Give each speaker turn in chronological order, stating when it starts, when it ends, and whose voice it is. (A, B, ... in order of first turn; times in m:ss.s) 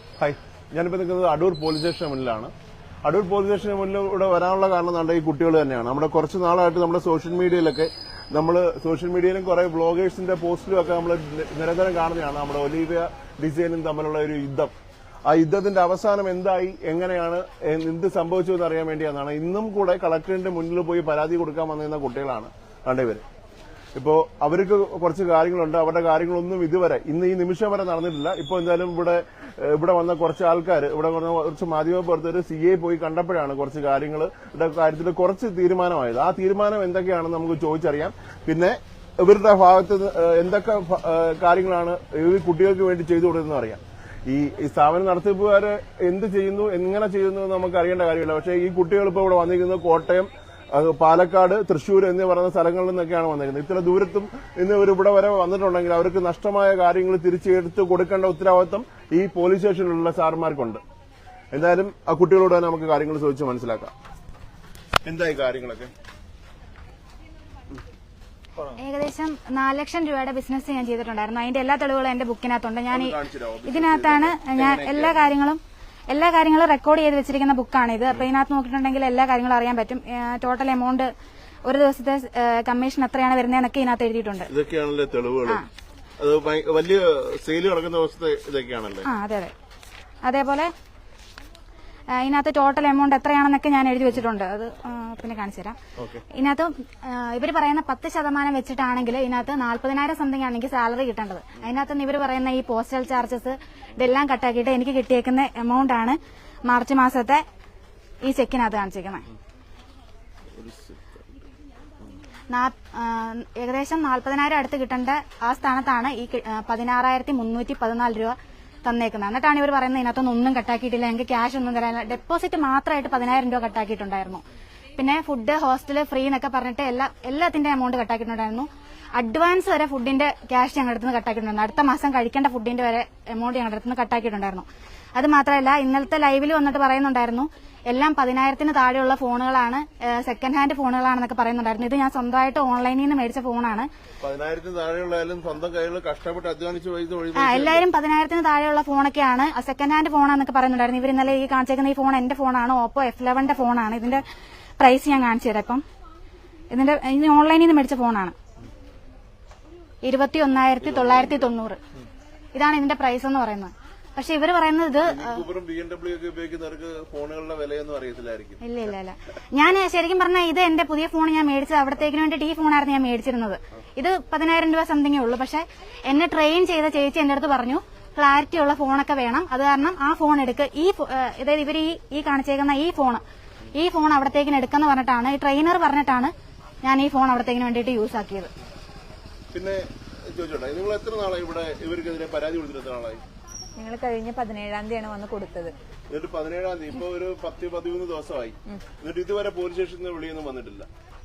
0:00.2-0:02.5 A
0:03.0-0:14.7 A
0:15.3-0:23.2 A
0:24.0-1:00.8 A
1:01.5-1:03.9 A
1:05.0-1:05.9 A
1:08.8-1:21.1 B
1:12.9-1:15.3 A
1:21.6-1:24.5 B
1:24.5-1:25.6 A
1:26.2-1:29.1 A
1:29.0-1:29.5 B
1:30.2-1:30.7 B
1:32.1-1:35.8 B
1:36.0-1:36.2 A
1:36.3-1:47.4 B
1:48.2-1:49.3 B
1:50.5-1:51.2 A
1:52.5-2:04.4 B
2:05.0-2:23.9 B
2:24.2-2:27.9 A
2:27.4-2:34.2 B
2:34.8-2:35.8 B
2:36.7-2:38.3 B
2:40.0-2:41.8 B
2:40.8-2:41.5 A
2:42.5-2:45.4 B
2:45.0-2:48.9 A
2:48.6-3:03.2 B
3:03.7-3:08.5 B
3:09.5-3:13.2 A
3:13.8-3:15.7 C
3:16.1-3:20.9 A